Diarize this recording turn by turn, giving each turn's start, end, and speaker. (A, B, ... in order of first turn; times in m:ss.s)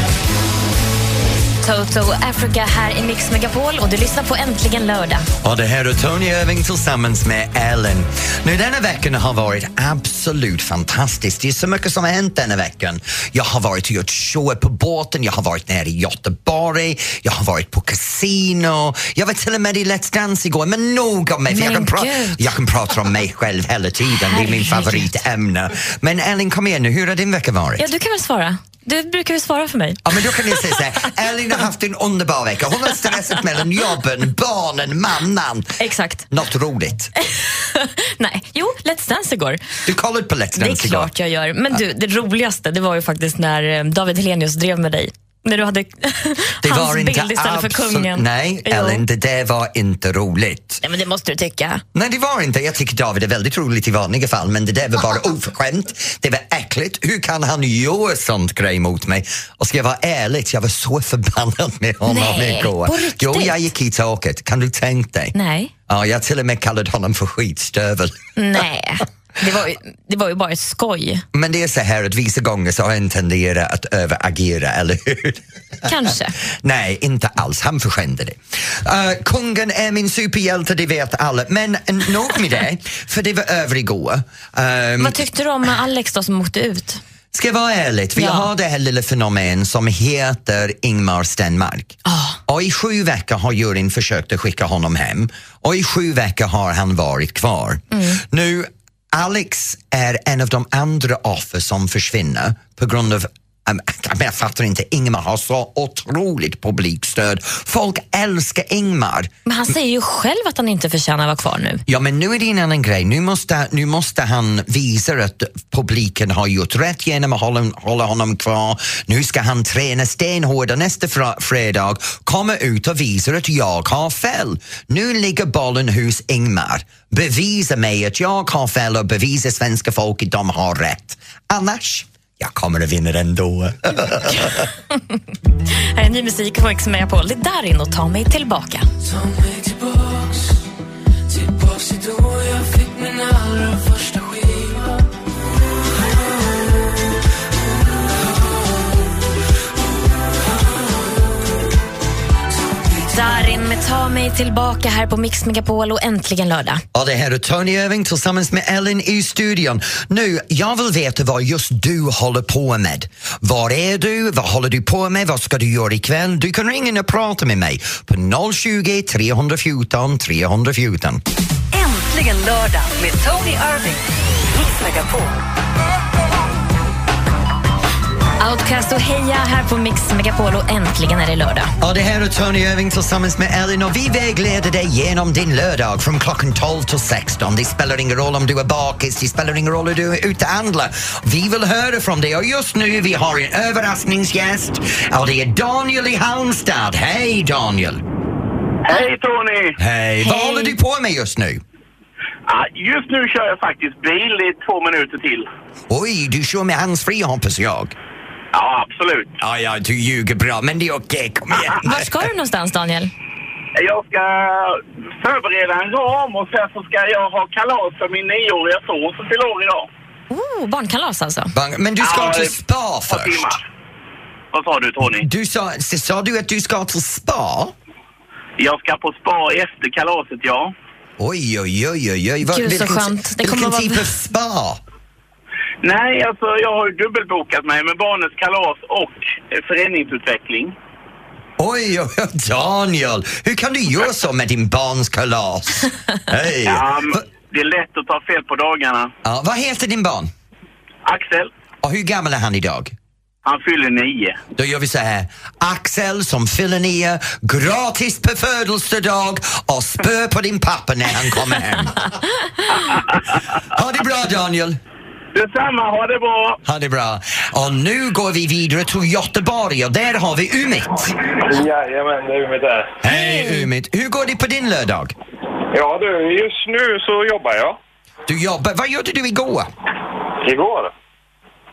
0:01.6-0:05.3 A
0:05.4-0:27.9 B
0:21.5-0:22.4 A
0:24.2-0:25.2 A
0:27.8-0:30.8 A
0:30.0-0:35.8 B
0:35.8-0:36.3 A
0:36.3-0:37.1 B
0:37.3-0:39.6 A
0:39.9-0:41.1 B
0:40.6-0:49.0 A
0:46.6-0:50.8 B
0:50.8-0:51.8 A
0:51.9-1:05.3 B
1:02.1-1:03.7 A
1:05.3-1:05.7 A
1:05.9-1:08.2 B
1:08.4-1:11.2 A
1:11.3-1:25.2 B
1:15.8-1:16.4 A
1:25.0-1:27.0 A
1:27.3-1:32.0 B
1:28.2-1:28.5 A
1:32.1-1:32.4 A
1:32.5-1:49.3 B
1:37.9-1:38.2 A
1:49.5-1:51.8 A
1:51.9-2:14.7 B
2:16.0-2:18.9 A
2:33.1-2:36.8 A
2:36.9-2:51.2 B
2:51.7-2:54.0 C
2:54.6-2:55.3 C
2:58.4-3:01.7 A
3:01.8-3:18.0 B
3:18.9-3:19.8 D
3:19.8-3:21.6 B
3:20.2-3:20.8 A
3:22.5-3:25.5 D
3:25.9-3:28.0 B
3:28.5-3:29.4 D
3:29.4-3:32.3 B
3:31.8-3:33.1 A
3:33.8-3:39.9 D
3:40.3-3:41.5 A
3:41.5-3:43.6 B
3:42.0-3:42.6 D
3:43.1-3:43.6 D
3:44.5-3:45.3 D
3:45.1-3:47.7 B
3:48.6-3:50.7 D
3:51.2-3:54.8 B
3:52.5-3:54.2 A
3:55.8-4:00.8 D
4:01.6-4:07.3 B
4:06.7-4:09.1 D
4:09.2-4:10.3 B
4:11.1-4:11.5 D
4:11.8-4:13.0 B
4:13.4-4:14.4 D
4:14.6-4:22.0 B
4:23.7-4:24.8 B
4:25.3-4:26.6 D
4:26.6-4:31.2 B
4:31.4-4:33.0 E
4:33.0-4:35.1 B
4:33.1-4:33.7 A
4:35.7-4:37.8 E
4:38.3-4:39.7 B
4:40.4-4:40.9 E